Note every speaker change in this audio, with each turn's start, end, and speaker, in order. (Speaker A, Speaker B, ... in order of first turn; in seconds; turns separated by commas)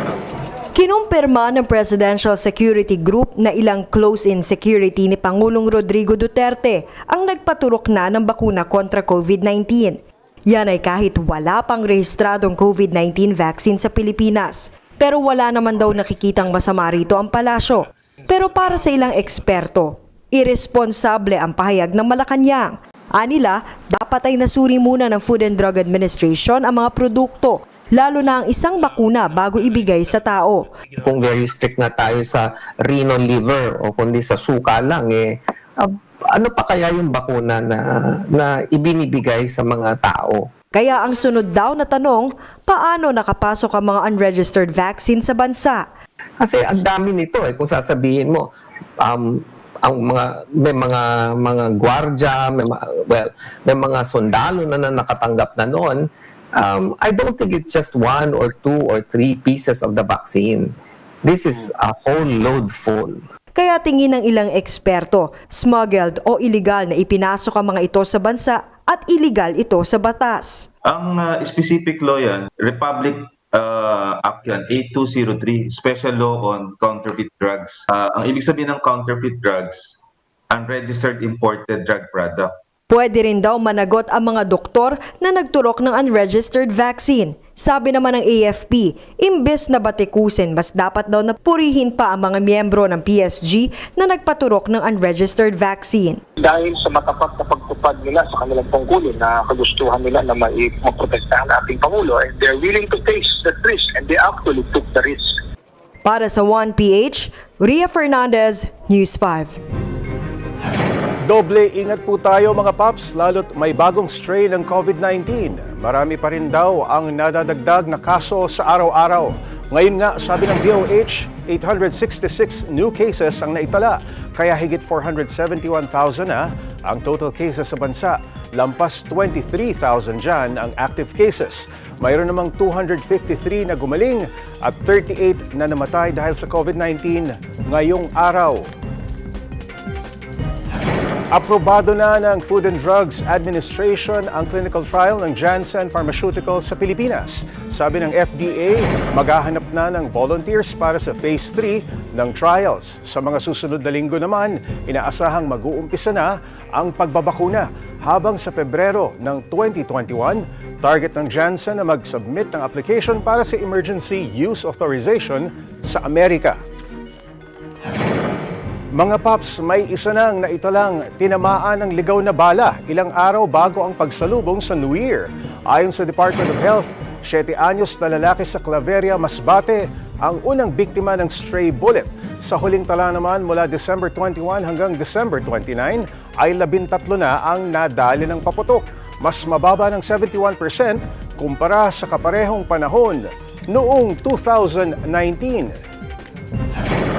Speaker A: 0.7-30.7, Speaker B: 31.0-40.4, Speaker A: 40.7-45.9, Speaker B: 46.4-48.5, Speaker B: 49.0-56.0, Speaker B: 56.6-60.7, Speaker B: 61.2-63.2, Speaker A: 63.5-70.7, Speaker C: 70.9-80.0, Speaker C: 80.5-82.5, Speaker A: 82.9-96.2, Speaker D: 96.4-105.3, Speaker A: 106.0-109.6, Speaker E: 111.2-138.7, Speaker E: 141.3-166.6, Speaker E: 168.9-195.8